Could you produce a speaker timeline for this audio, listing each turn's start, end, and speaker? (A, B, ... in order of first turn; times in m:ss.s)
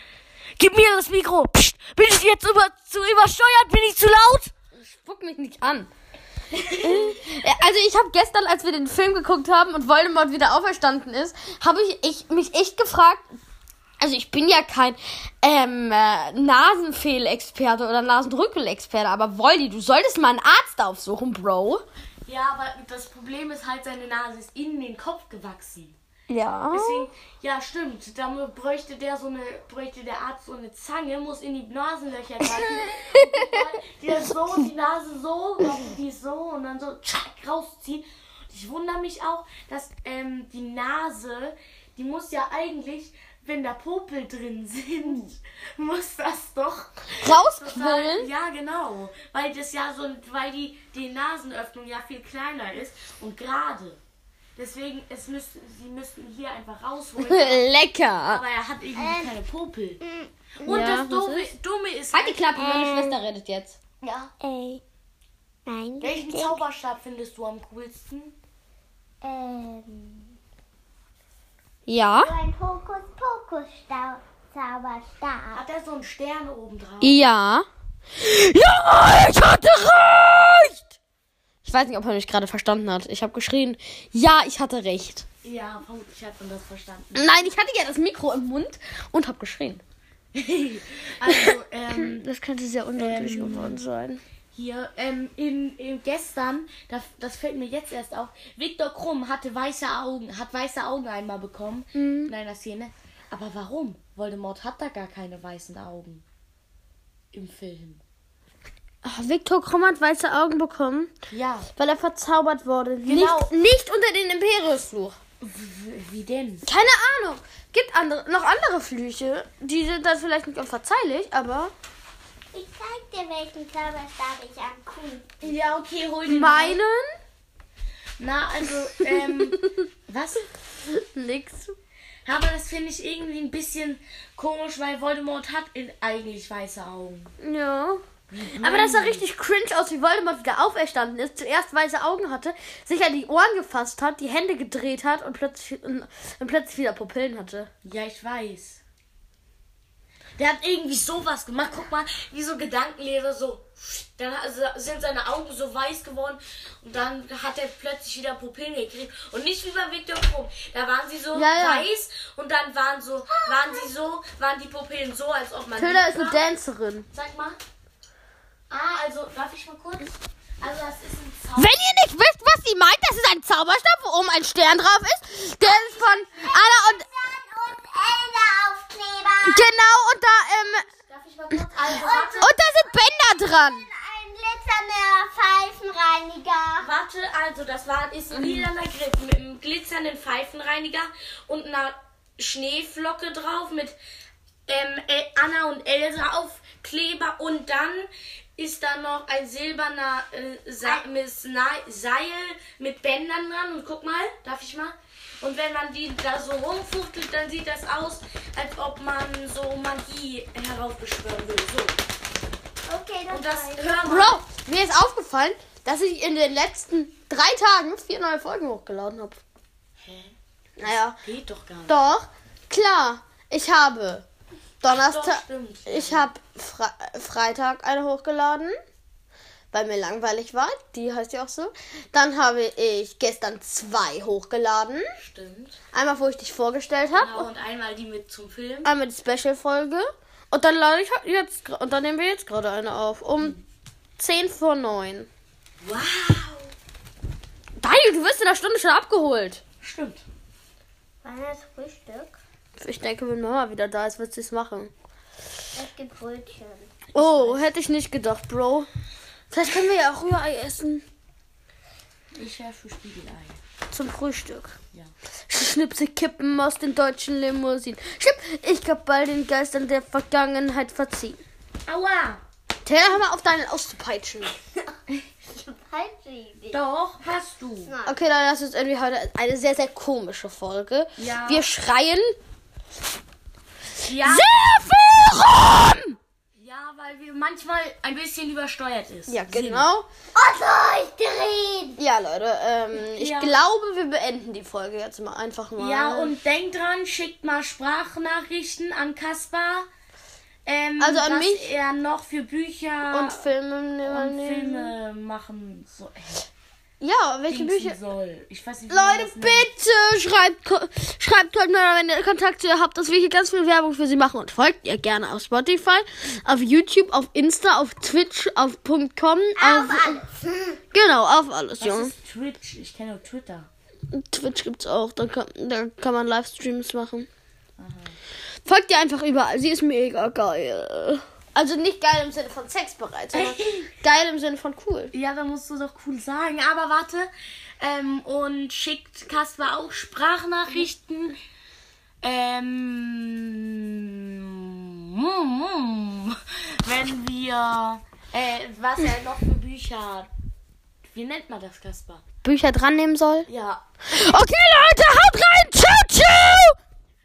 0:00.6-0:04.5 A
0:04.7-0:05.9 B
0:06.6-0:07.2 A
0:06.7-0:13.3 B
0:14.0-0:21.8 B
0:22.2-0:26.0 A
0:26.3-0:27.1 B
0:26.7-0:54.0 A
0:47.2-0:48.3 B
0:54.6-0:57.7 A
0:57.2-0:58.4 B
0:58.2-1:00.0 A
0:59.0-0:59.3 C
1:00.0-1:00.9 C
1:00.6-1:02.4 A
1:00.6-1:01.5 B
1:02.1-1:03.8 B
1:02.5-1:03.2 C
1:04.0-1:04.3 A
1:04.4-1:04.8 C
1:05.6-1:06.6 C
1:06.0-1:08.3 A
1:09.2-1:10.4 C
1:11.9-1:12.3 B
1:12.2-1:15.6 C
1:15.5-1:17.2 A
1:17.0-1:20.9 B
1:21.6-1:25.2 B
1:25.4-1:27.5 A
1:27.1-1:29.8 B
1:30.3-1:32.2 A
1:31.2-1:34.2 B
1:33.0-1:33.8 A
1:34.5-1:46.2 A
1:41.9-1:42.3 B
1:47.3-1:48.0 A
1:49.0-1:51.1 B
1:51.3-1:51.7 A
1:51.8-1:55.2 B
1:53.0-1:53.5 A
1:55.4-1:56.6 A
1:56.6-2:01.7 B
2:02.5-2:05.4 C
2:05.4-2:06.8 A
2:06.2-2:07.1 B
2:08.2-2:10.5 A
2:10.9-2:11.7 B
2:12.2-2:17.3 A
2:17.4-2:27.7 B
2:18.3-2:19.2 A
2:27.8-2:28.8 A
2:30.4-2:46.4 A
2:41.3-2:41.9 B
2:43.3-2:43.8 C
2:45.7-2:47.1 B
2:47.1-2:47.6 A
2:48.7-2:51.9 A
2:51.6-2:57.1 B
2:55.6-2:59.6 C
2:59.4-3:00.8 B
3:00.9-3:02.5 A
3:01.9-3:06.9 C
3:02.4-3:03.9 B
3:06.8-3:14.0 A
3:08.3-3:08.7 B
3:14.7-3:32.0 A
3:32.9-3:33.9 C
3:33.3-3:34.4 A
3:34.0-3:39.4 B
3:40.0-3:42.0 A
3:40.8-3:41.2 B
3:41.9-3:44.2 B
3:44.8-3:48.7 B
3:44.8-3:46.3 A
3:49.7-3:55.1 B
3:55.2-3:55.8 A
3:55.9-3:57.5 B
3:57.1-3:58.9 A
3:58.8-4:03.6 B
4:04.2-4:05.3 B
4:05.8-4:06.7 A
4:07.8-4:09.6 B
4:09.8-4:10.2 A
4:11.2-4:12.4 C
4:12.8-4:14.9 B
4:15.7-4:16.9 C
4:17.1-4:17.6 A
4:17.1-4:18.9 B
4:19.5-4:21.0 B
4:22.3-4:23.6 A
4:23.9-4:24.8 B
4:25.5-4:31.4 B
4:31.8-4:32.4 A
4:32.8-4:34.6 B
4:35.4-4:36.8 C
4:36.7-4:37.9 A
4:37.8-4:38.2 C
4:38.0-4:42.4 B
4:41.2-4:41.7 A
4:44.0-4:44.5 A
4:44.2-4:46.2 B
4:46.5-4:49.9 A
4:49.3-4:50.1 B
4:50.3-4:52.0 C
4:52.0-4:56.4 B
4:53.0-4:53.6 A
4:55.8-4:59.9 A
5:00.6-5:03.5 A
5:01.0-5:01.7 B
5:03.1-5:04.9 B
5:04.0-5:06.5 A
5:07.0-5:08.0 B
5:07.5-5:09.7 A
5:08.9-5:20.2 B
5:19.6-5:20.8 C
5:20.9-5:22.1 B
5:21.8-5:23.7 A
5:24.1-5:27.3 B
5:27.8-5:28.2 A
5:28.6-5:35.1 B
5:33.3-5:33.9 A
5:35.1-5:41.4 A
5:42.2-5:50.3 A
5:51.0-5:52.2 A
5:52.4-5:53.5 B
5:53.5-5:53.8 A
5:54.1-5:56.8 B